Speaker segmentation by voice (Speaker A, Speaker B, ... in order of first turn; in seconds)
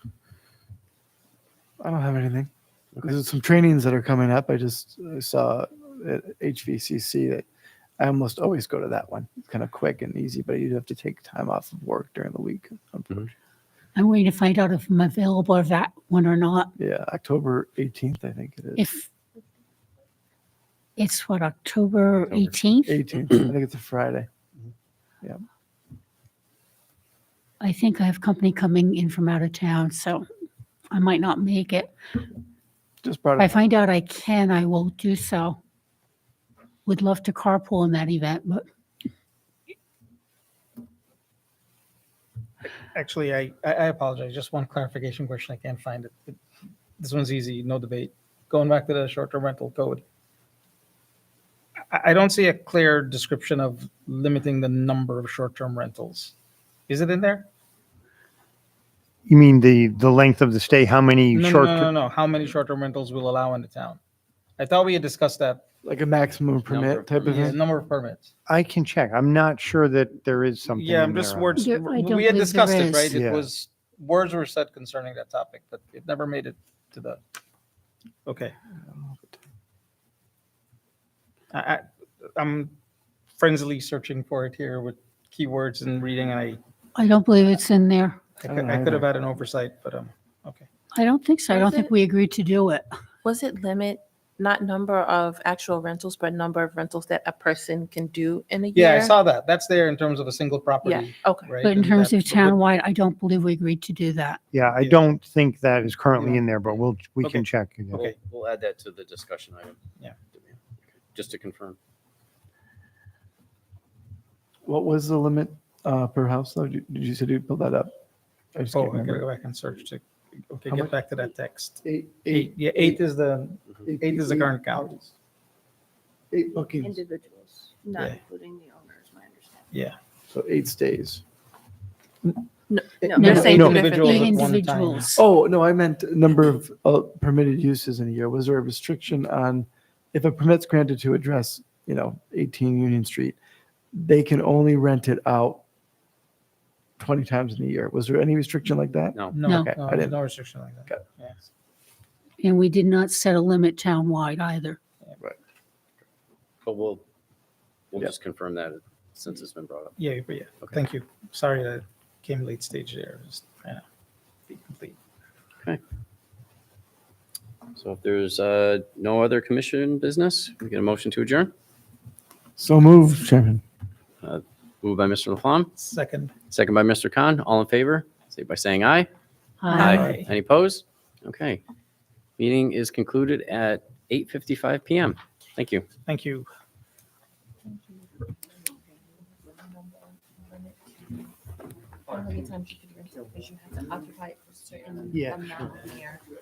Speaker A: 1.8-2.5, 3.0-7.5, 8.0-13.3, 16.8-18.8, 22.9-24.3, 33.0-33.5, 65.8-67.6, 78.9-79.3, 88.4-89.1, 114.6-117.9, 118.5-119.2, 120.6-120.9, 121.8-123.0, 123.8-125.1, 126.3-127.0, 130.3-131.2, 133.3-133.8, 135.1-143.4, 143.9-145.6, 147.0-150.2, 172.6-173.6
Speaker B: 13.9-16.7, 18.8-19.1, 21.0-23.0, 27.6-30.2, 30.9-31.9, 33.4-35.6, 36.9-38.6, 71.6-73.2, 87.0-88.3, 90.9-92.9, 101.6-104.4, 133.1-135.2, 149.4-149.7, 152.4-154.8, 179.6-180.1
Speaker C: 22.3-22.5, 66.7-67.4, 107.9-109.8, 110.3-111.8, 156.6-157.0, 157.9-160.0, 167.7-171.5, 174.2-175.7, 176.5-179.1, 179.7-181.6, 182.4-185.8
Speaker D: 42.9-46.4, 47.0-50.0, 51.9-56.3, 56.9-57.5, 61.3-64.0, 64.6-65.6, 67.2-68.3, 70.7-77.2, 78.2-78.5, 81.5-82.7, 83.4-86.6, 88.4-90.7, 98.7-102.5, 104.7-105.0, 106.2-106.5, 107.2-108.1, 118.7-120.0, 120.5-124.9, 127.9-128.2, 129.7-130.0, 133.1-135.2, 149.3-151.4, 160.0-163.8, 164.5-164.9, 175.8-176.3, 179.7-180.2, 186.1-186.4
Speaker E: 59.2-61.9, 68.5-71.6, 73.1-73.4, 104.5-108.0, 195.1-195.5
Speaker F: 91.5-91.9, 93.2-99.2, 100.8-101.6, 132.7-134.5, 187.6-191.3, 192.1-196.2
Speaker G: 126.8-129.6